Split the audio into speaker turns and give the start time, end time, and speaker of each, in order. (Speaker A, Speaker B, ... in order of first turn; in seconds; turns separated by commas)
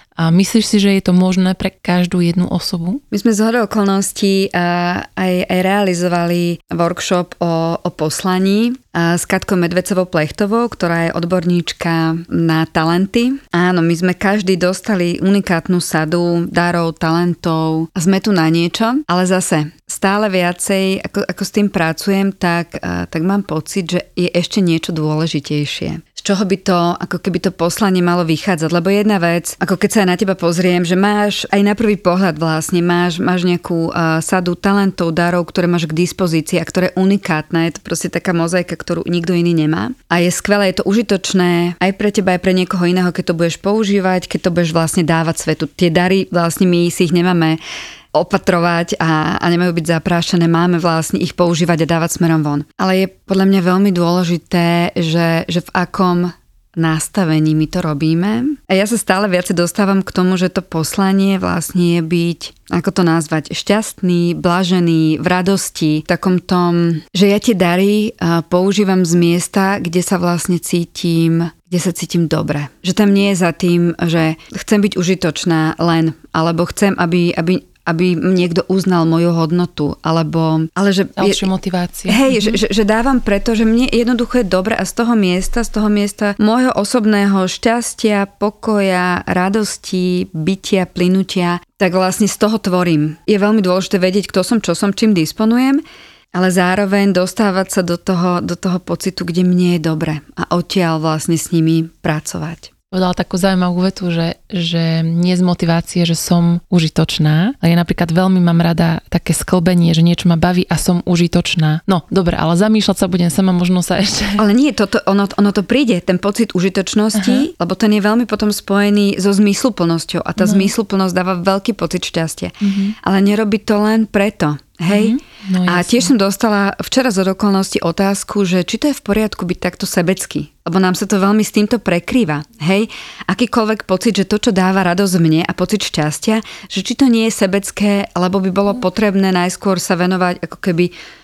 Speaker A: 0.2-3.0, Speaker B: 3.1-47.6, Speaker B: 48.1-81.5, Speaker A: 81.2-82.5, Speaker B: 82.1-102.7, Speaker A: 102.9-114.4, Speaker B: 114.4-140.9, Speaker A: 117.1-117.5, Speaker A: 120.4-120.7, Speaker A: 122.6-122.9, Speaker A: 124.9-126.1